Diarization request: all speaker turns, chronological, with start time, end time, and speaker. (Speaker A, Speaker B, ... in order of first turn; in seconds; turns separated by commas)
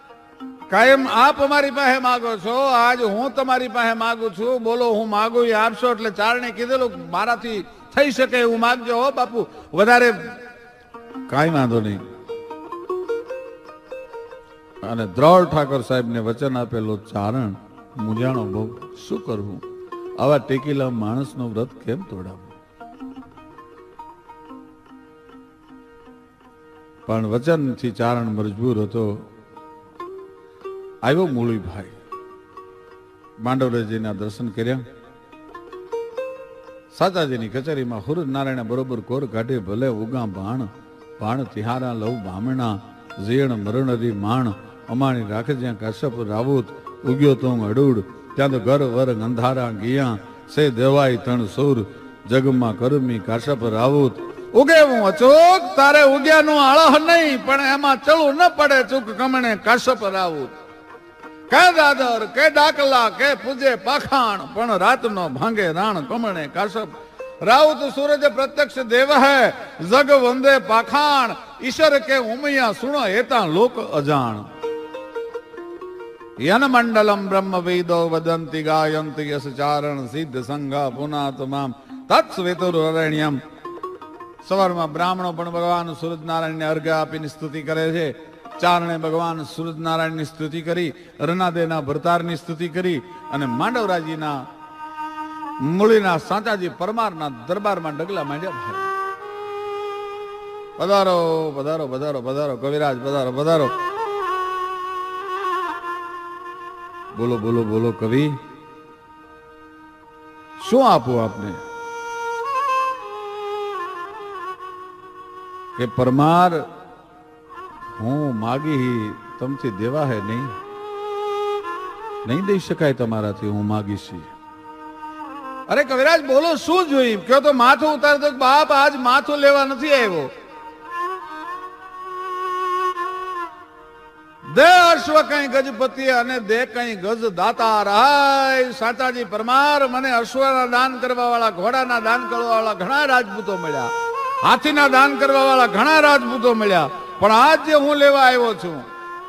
Speaker A: 0.7-10.2, Speaker A: 11.3-12.0, Speaker A: 14.8-19.6, Speaker A: 20.2-22.6, Speaker A: 27.1-29.1, Speaker A: 31.0-31.9, Speaker A: 33.4-34.8, Speaker A: 36.9-60.5, Speaker A: 61.5-74.5, Speaker A: 76.4-83.4, Speaker A: 84.4-94.4, Speaker A: 95.6-98.9, Speaker A: 100.8-103.7, Speaker A: 107.1-108.4, Speaker A: 110.6-111.6, Speaker A: 115.8-116.6, Speaker A: 118.0-120.5, Speaker A: 122.2-124.3, Speaker A: 125.7-130.3, Speaker A: 134.5-143.9, Speaker A: 144.4-148.8